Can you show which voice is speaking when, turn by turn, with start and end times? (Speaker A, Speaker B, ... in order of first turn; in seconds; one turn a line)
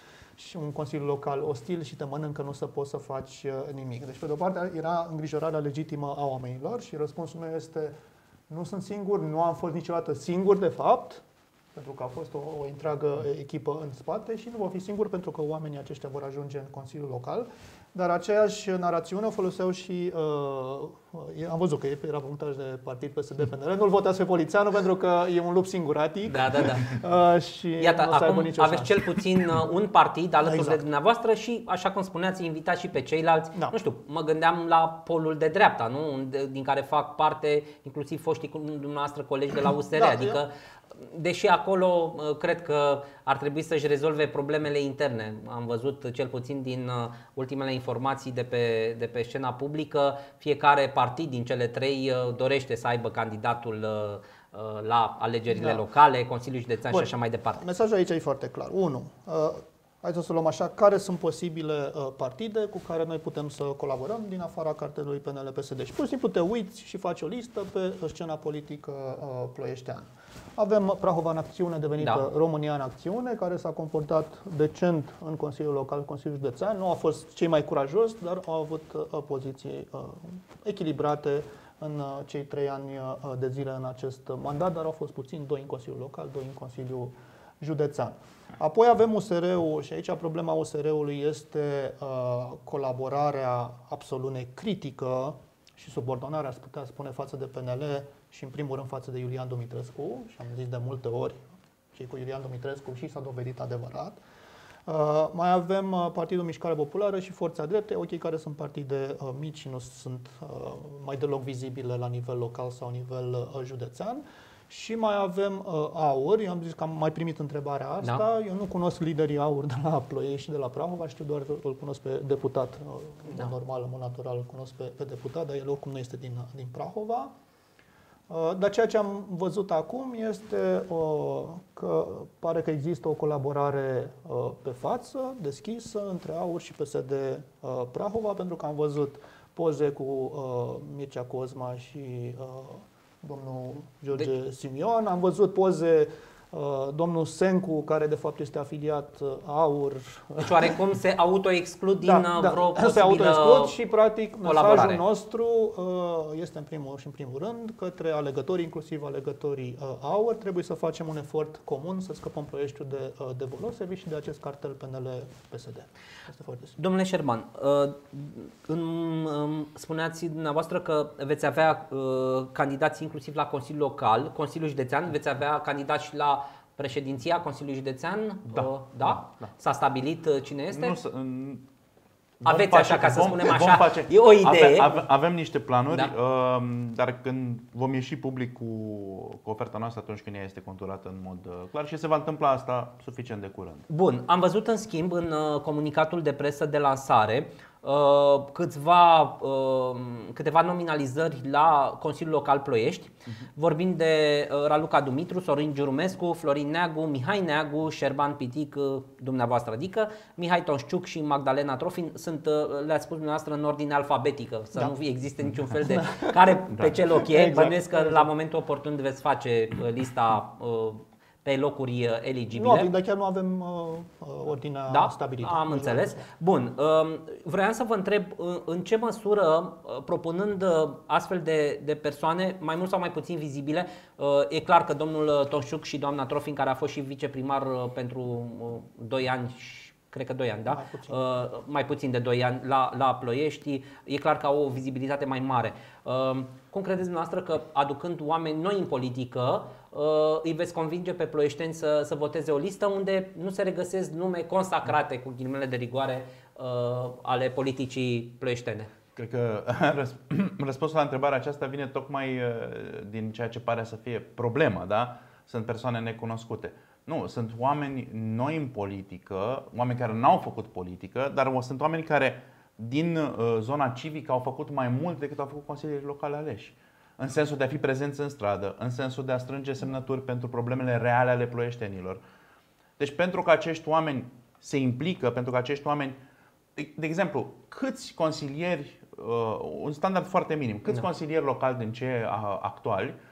Speaker A: 0.4-8.0
Speaker A: 8.5-11.2
Speaker A: 11.8-29.6
Speaker B: 26.3-27.0
Speaker B: 27.8-57.6
Speaker A: 30.4-30.8
Speaker A: 40.0-40.4
Speaker A: 55.5-55.8
Speaker A: 56.9-101.4
Speaker B: 72.0-72.2
Speaker A: 101.9-104.2
Speaker A: 104.9-127.3
Speaker A: 128.3-150.8
Speaker B: 150.4-153.8
Speaker A: 152.0-166.8
Speaker B: 154.4-155.0
Speaker B: 166.8-181.0
Speaker C: 178.5-179.5
Speaker C: 180.7-181.7
Speaker C: 182.4-193.9
Speaker B: 182.4-185.1
Speaker B: 193.9-222.9
Speaker A: 215.9-216.6
Speaker A: 217.2-218.3
Speaker A: 222.5-226.3
Speaker B: 224.9-258.9
Speaker A: 240.7-241.2
Speaker C: 259.2-282.2
Speaker C: 283.0-286.2
Speaker C: 286.8-293.2